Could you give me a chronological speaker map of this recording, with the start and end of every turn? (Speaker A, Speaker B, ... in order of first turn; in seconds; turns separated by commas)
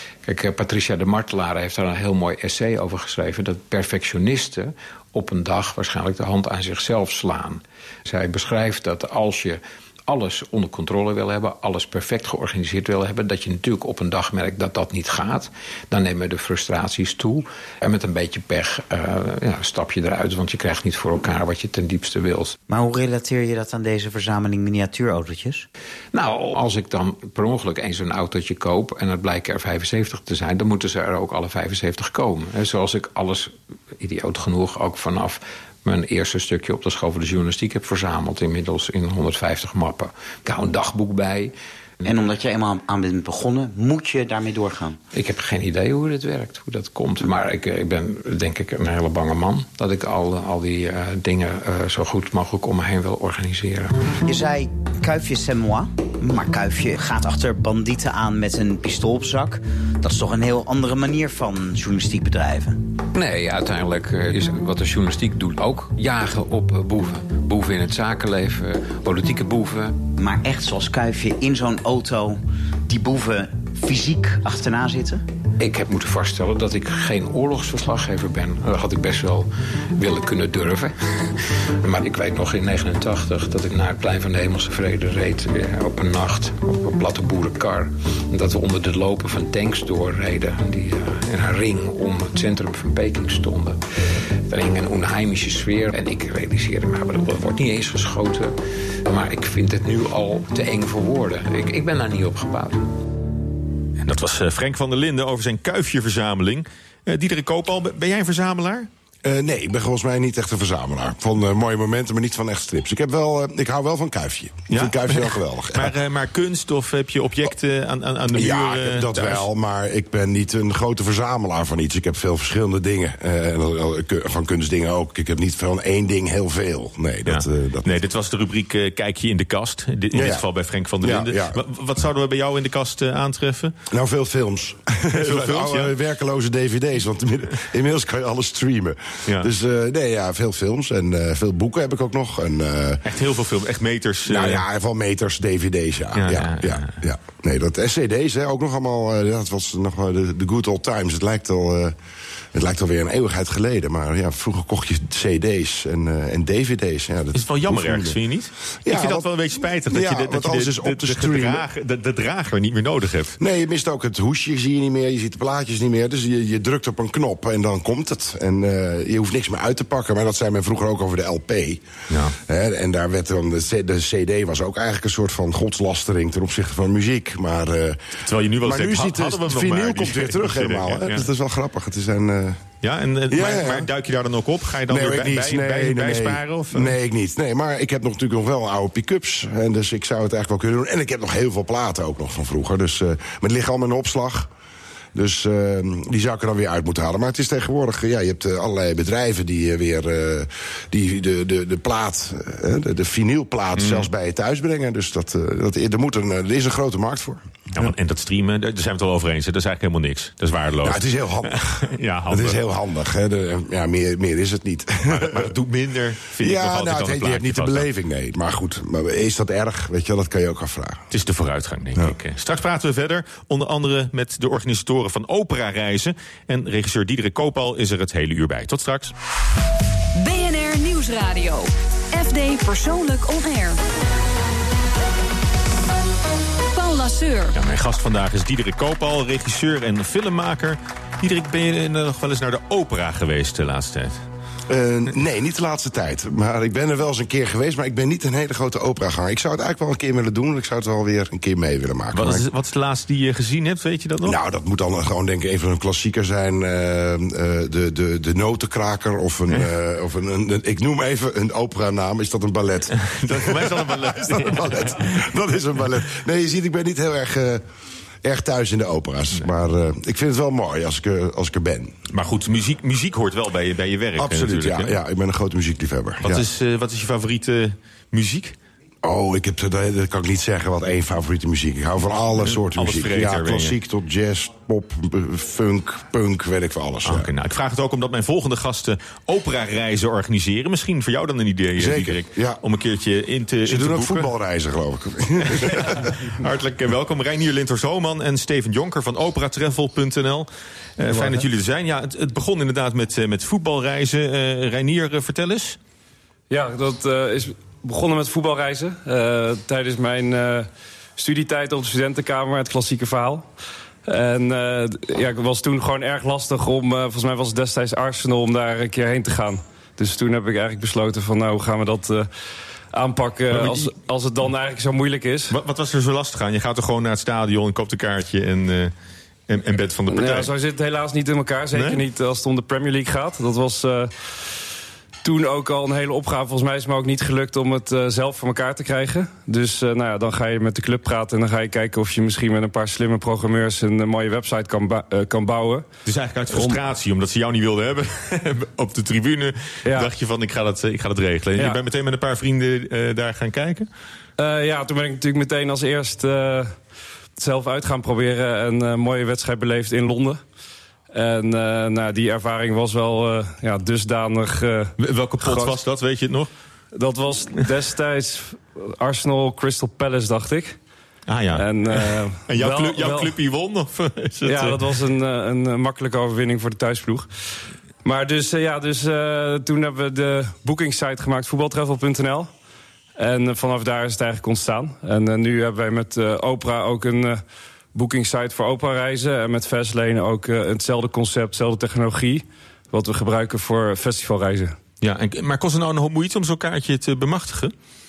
Speaker A: 0.2-22.6, Speaker B: 22.7-25.6, Speaker A: 26.1-41.5, Speaker B: 42.0-45.0, Speaker A: 45.1-54.0, Speaker B: 54.2-62.8, Speaker A: 63.1-70.1, Speaker B: 70.1-75.2, Speaker A: 75.6-93.8, Speaker A: 94.5-102.9, Speaker C: 104.0-108.9, Speaker D: 109.2-115.9, Speaker C: 114.7-119.5, Speaker D: 118.3-128.0, Speaker C: 127.2-133.8, Speaker D: 130.1-130.4, Speaker D: 131.0-131.6, Speaker D: 133.9-143.0, Speaker C: 135.1-135.9, Speaker C: 143.0-144.6, Speaker D: 144.3-151.9, Speaker C: 146.2-147.0, Speaker D: 152.6-158.2, Speaker C: 157.3-163.4, Speaker D: 158.8-161.6, Speaker D: 163.4-171.8, Speaker C: 172.1-172.4, Speaker D: 172.5-178.0, Speaker C: 178.2-181.3, Speaker D: 178.6-182.6, Speaker C: 182.8-186.9, Speaker D: 183.3-183.9, Speaker D: 184.9-194.5, Speaker D: 195.2-207.9, Speaker C: 203.8-204.1, Speaker C: 207.7-212.6, Speaker D: 210.8-215.5, Speaker C: 215.1-217.9, Speaker D: 216.4-221.0, Speaker C: 221.1-229.1, Speaker E: 230.2-233.8, Speaker E: 236.7-237.6, Speaker C: 237.5-244.2, Speaker D: 244.7-252.4, Speaker C: 252.1-254.4, Speaker D: 254.2-267.6, Speaker C: 263.0-265.3, Speaker D: 268.2-271.9, Speaker C: 272.1-274.9, Speaker D: 274.2-276.4, Speaker C: 276.2-278.6, Speaker D: 279.0-287.3, Speaker C: 282.4-283.8, Speaker C: 287.0-294.3, Speaker D: 291.8-292.6, Speaker D: 293.7-296.2, Speaker C: 295.4-305.8, Speaker F: 306.5-313.5, Speaker F: 314.1-322.3, Speaker F: 322.9-325.5, Speaker C: 323.5-323.9, Speaker C: 325.5-328.9, Speaker C: 329.5-330.5, Speaker F: 330.1-334.1, Speaker C: 331.7-332.0, Speaker F: 335.2-345.9, Speaker C: 346.1-353.9, Speaker F: 346.5-346.8, Speaker F: 354.4-356.7, Speaker F: 357.4-360.4, Speaker F: 361.1-365.8, Speaker C: 365.0-366.5, Speaker F: 366.9-370.8, Speaker C: 371.3-374.9, Speaker F: 371.6-373.3, Speaker F: 374.4-377.3, Speaker F: 378.0-382.5, Speaker F: 383.2-387.4, Speaker F: 387.9-394.8, Speaker C: 395.0-397.7